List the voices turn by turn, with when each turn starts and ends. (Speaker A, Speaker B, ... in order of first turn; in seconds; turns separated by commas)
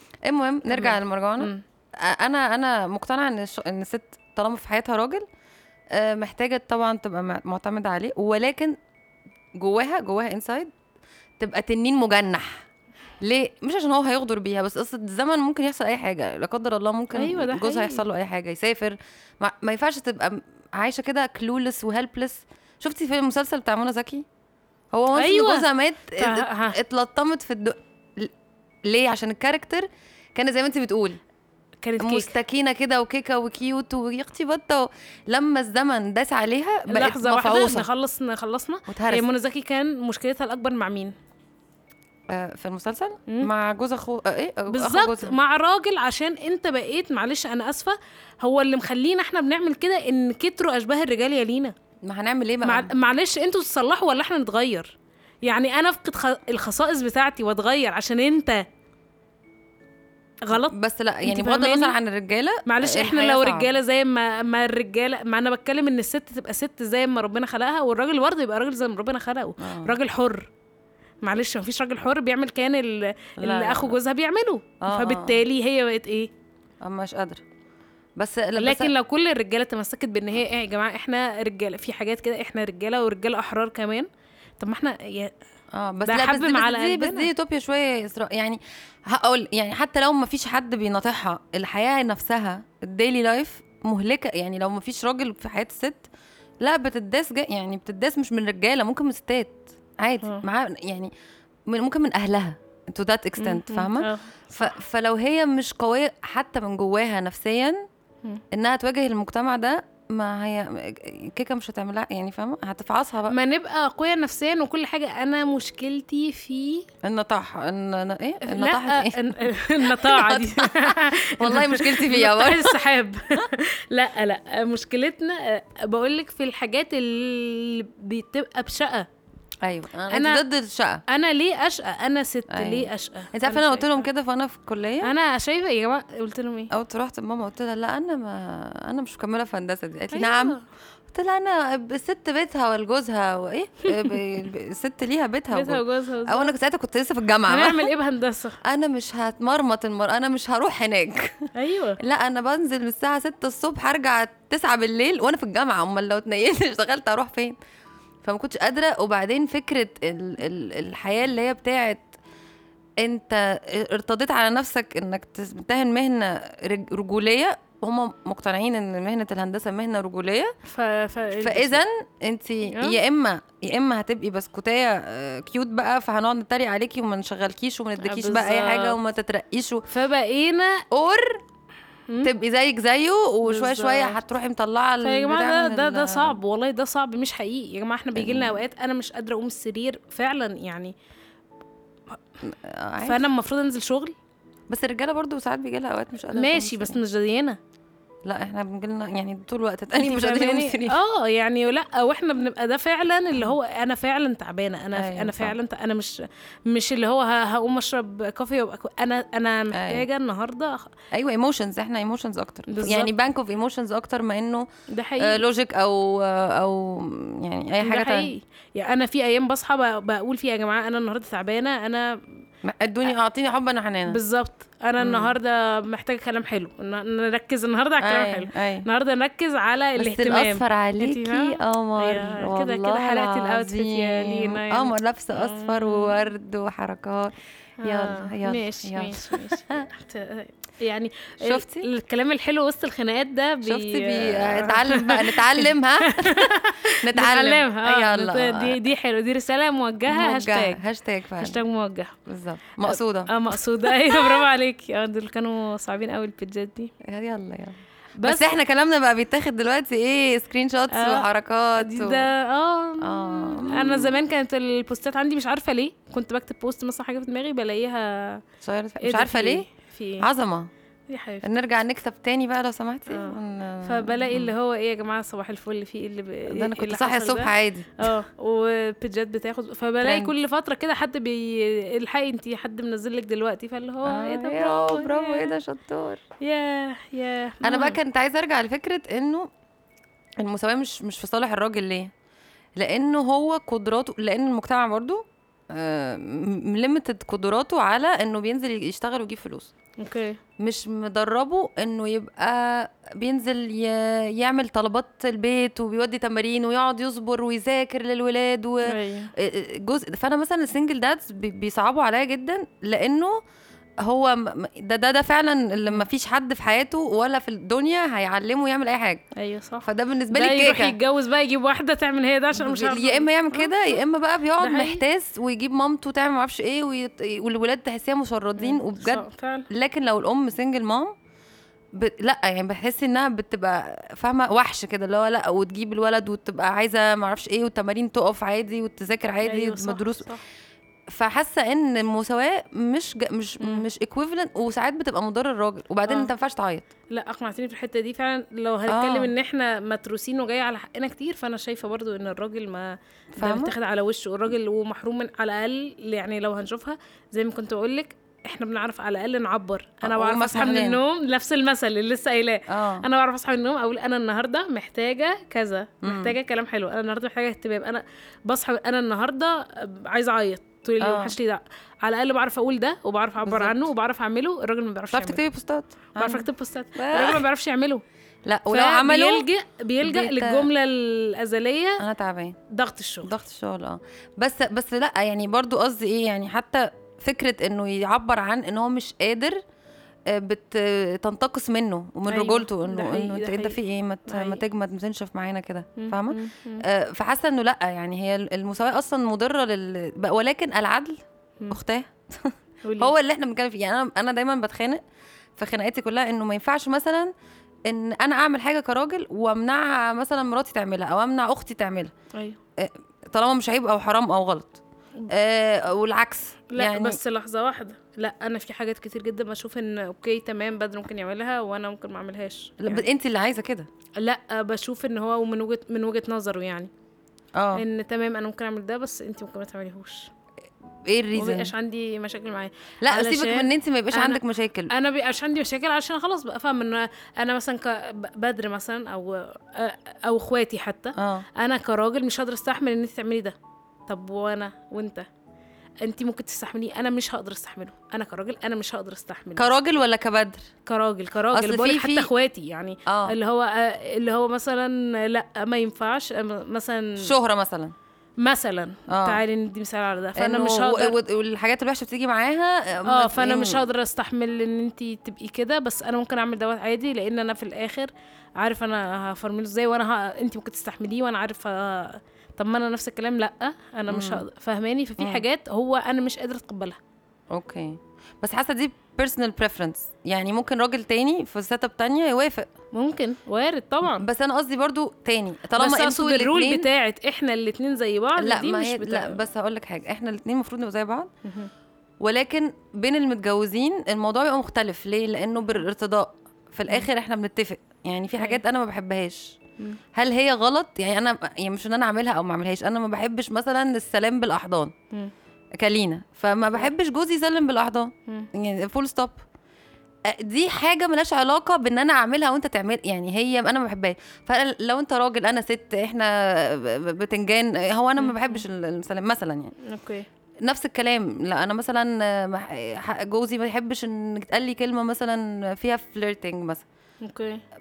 Speaker A: 0.2-5.2, Speaker B: 0.7-1.6, Speaker A: 5.9-8.8, Speaker A: 9.6-10.7, Speaker A: 11.4-12.6, Speaker A: 13.2-24.2, Speaker B: 17.1-18.0, Speaker A: 24.9-28.3, Speaker B: 25.1-26.8, Speaker A: 28.8-31.2, Speaker B: 31.8-32.3, Speaker A: 32.0-37.9, Speaker B: 36.9-41.1, Speaker A: 38.9-39.2, Speaker A: 42.3-45.4, Speaker B: 44.7-51.7, Speaker A: 52.0-52.9, Speaker B: 52.6-58.6, Speaker B: 60.5-62.0, Speaker A: 60.5-63.7, Speaker B: 62.6-70.5, Speaker A: 69.6-70.0, Speaker B: 71.2-76.3, Speaker A: 73.4-74.0, Speaker A: 74.8-75.4, Speaker A: 76.8-77.4, Speaker A: 78.2-78.9, Speaker B: 78.5-84.1, Speaker B: 84.6-85.3, Speaker A: 85.7-96.1, Speaker B: 86.0-87.3, Speaker A: 96.6-101.1, Speaker A: 101.7-107.8, Speaker B: 103.4-104.8, Speaker A: 108.5-113.3, Speaker B: 113.3-116.8, Speaker A: 117.0-122.8, Speaker B: 118.4-129.1, Speaker A: 129.6-131.0, Speaker B: 130.1-130.4, Speaker B: 131.1-134.0, Speaker A: 132.5-135.1, Speaker B: 135.0-136.7, Speaker A: 136.7-140.6, Speaker B: 140.1-140.6, Speaker A: 141.1-147.9, Speaker B: 143.8-144.2, Speaker B: 145.5-146.5, Speaker B: 147.5-148.6, Speaker A: 148.6-157.6, Speaker B: 151.5-152.0, Speaker A: 158.2-162.1, Speaker A: 163.0-170.5, Speaker B: 170.7-171.8, Speaker A: 171.4-179.8, Speaker B: 172.7-173.0, Speaker B: 178.0-179.0, Speaker B: 179.9-180.8, Speaker A: 180.9-181.4, Speaker A: 182.2-186.4, Speaker B: 183.4-184.2, Speaker B: 185.0-190.9, Speaker A: 188.1-188.6, Speaker A: 192.4-193.2, Speaker B: 193.0-194.2, Speaker A: 194.7-197.0, Speaker B: 196.3-197.6, Speaker A: 198.2-201.0, Speaker B: 200.0-210.9, Speaker A: 204.9-205.5, Speaker A: 209.7-210.1, Speaker A: 211.1-214.7, Speaker B: 212.7-213.1, Speaker B: 214.9-215.4, Speaker A: 215.2-218.3, Speaker B: 217.8-222.2, Speaker A: 222.6-224.2, Speaker B: 224.1-236.2, Speaker A: 225.0-225.3, Speaker A: 228.0-228.8, Speaker A: 230.0-239.9, Speaker B: 237.8-250.8, Speaker A: 241.4-241.9, Speaker A: 243.6-248.8, Speaker A: 250.1-251.6, Speaker B: 251.4-252.2, Speaker A: 252.2-254.4, Speaker B: 252.8-256.9, Speaker A: 257.0-262.3, Speaker B: 258.2-258.5, Speaker B: 260.9-268.4, Speaker A: 263.0-264.2, Speaker A: 268.6-269.6, Speaker B: 269.0-270.3, Speaker A: 270.2-270.7, Speaker B: 271.1-271.5, Speaker A: 271.4-274.5, Speaker B: 273.1-285.5, Speaker A: 276.5-278.1, Speaker A: 280.0-280.3, Speaker A: 284.0-286.2, Speaker B: 286.4-288.0, Speaker A: 287.6-289.5, Speaker A: 290.4-292.1, Speaker A: 292.8-299.7, Speaker B: 300.0-300.4, Speaker A: 300.6-313.4, Speaker B: 308.8-309.3, Speaker A: 314.0-319.2, Speaker B: 319.4-324.0, Speaker A: 319.8-321.0, Speaker A: 322.5-331.1, Speaker B: 324.6-325.0, Speaker B: 328.6-329.7, Speaker A: 331.9-340.2, Speaker B: 339.4-340.4, Speaker A: 341.1-346.9, Speaker B: 343.6-343.8, Speaker B: 347.1-375.4, Speaker A: 348.9-349.3, Speaker A: 353.3-353.7, Speaker A: 360.0-361.0, Speaker A: 362.7-363.1, Speaker A: 366.0-366.3, Speaker A: 371.0-371.3, Speaker A: 373.4-373.9, Speaker A: 375.1-377.4, Speaker B: 376.2-378.0, Speaker A: 378.4-379.4, Speaker B: 378.7-382.0, Speaker A: 380.0-380.7, Speaker A: 382.0-382.6, Speaker B: 382.7-383.3, Speaker A: 383.2-389.6, Speaker A: 390.3-405.0, Speaker B: 392.3-394.6, Speaker B: 396.0-396.9, Speaker B: 402.8-403.1, Speaker A: 405.6-407.3, Speaker A: 407.9-412.1, Speaker A: 412.8-417.2, Speaker B: 416.7-423.1, Speaker A: 422.8-423.9, Speaker B: 424.2-426.9, Speaker A: 427.5-427.8, Speaker B: 427.7-430.3, Speaker A: 431.0-431.7, Speaker B: 431.3-443.5, Speaker A: 433.0-434.9, Speaker A: 441.1-441.5, Speaker B: 444.1-445.2, Speaker B: 446.0-449.7, Speaker A: 449.6-450.7, Speaker B: 450.9-457.3, Speaker A: 451.5-452.3, Speaker A: 453.1-453.3, Speaker A: 457.2-457.9, Speaker B: 458.4-461.1, Speaker A: 459.1-459.4, Speaker A: 460.4-463.8, Speaker B: 463.1-477.0, Speaker A: 474.1-474.4, Speaker A: 475.2-475.4, Speaker A: 477.5-482.7, Speaker B: 482.9-484.2, Speaker A: 484.0-486.9, Speaker B: 485.8-489.4, Speaker A: 488.4-491.3, Speaker B: 491.4-491.7, Speaker A: 492.2-499.6, Speaker A: 500.1-504.9, Speaker A: 505.8-509.4, Speaker A: 510.3-519.7, Speaker B: 518.2-518.6, Speaker B: 519.8-520.3, Speaker A: 520.6-526.8, Speaker B: 527.2-527.6